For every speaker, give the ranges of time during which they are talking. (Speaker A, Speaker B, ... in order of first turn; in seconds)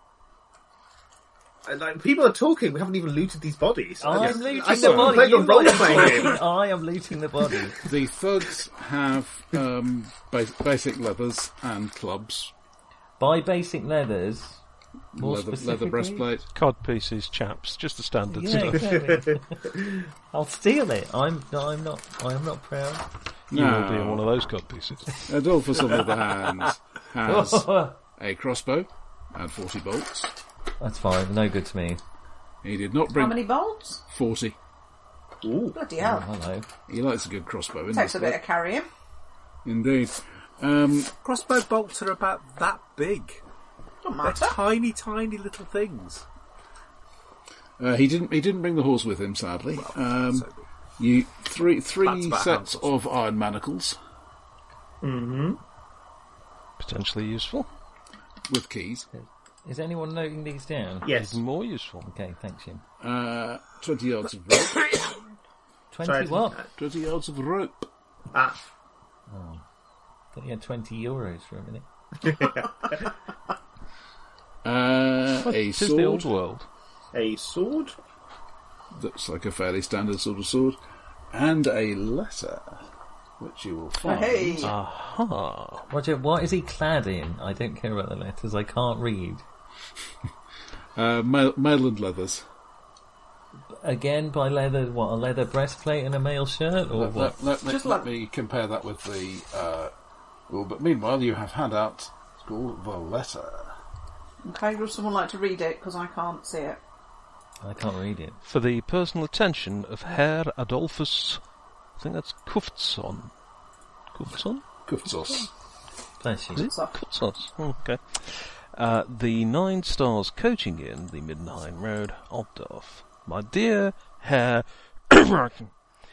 Speaker A: 1.6-6.4, 18.9-19.3, 35.4-35.8, 55.0-55.6, 61.0-61.4, 66.0-66.7, 68.3-68.6, 72.2-73.1, 77.1-78.0
Speaker B: 4.0-7.8, 13.2-14.6, 15.2-16.3, 18.3-23.1, 27.2-28.0, 30.8-32.0, 36.0-36.7, 59.1-61.1, 62.0-62.8, 65.9-66.6, 69.3-69.6, 70.3-71.8, 85.9-89.4, 93.7-97.3, 107.6-108.4, 116.2-116.7
Speaker C: 4.7-5.2, 7.8-12.5, 15.1-16.5, 23.5-24.3, 25.3-30.3, 32.6-33.4, 34.1-34.5, 36.9-38.4, 39.6-41.1, 47.8-50.5, 51.0-54.0, 58.5-59.1, 63.0-65.0, 66.8-67.9, 74.6-76.3, 78.9-80.8, 81.3-82.8, 83.4-84.7, 91.0-92.4, 96.9-99.9, 100.5-103.7, 114.8-115.5
Speaker D: 16.5-19.0, 23.5-25.3, 56.8-57.7, 61.1-62.1, 75.4-76.7, 84.6-85.9, 108.4-111.4, 112.0-113.3, 114.1-114.6, 116.5-125.7
Speaker E: 33.1-34.0, 35.7-36.3, 37.9-38.9, 44.0-44.6, 84.0-84.7, 97.6-98.1, 104.4-106.8, 116.7-117.0
Speaker F: 41.2-43.4, 44.2-46.2, 49.7-50.6, 52.0-52.9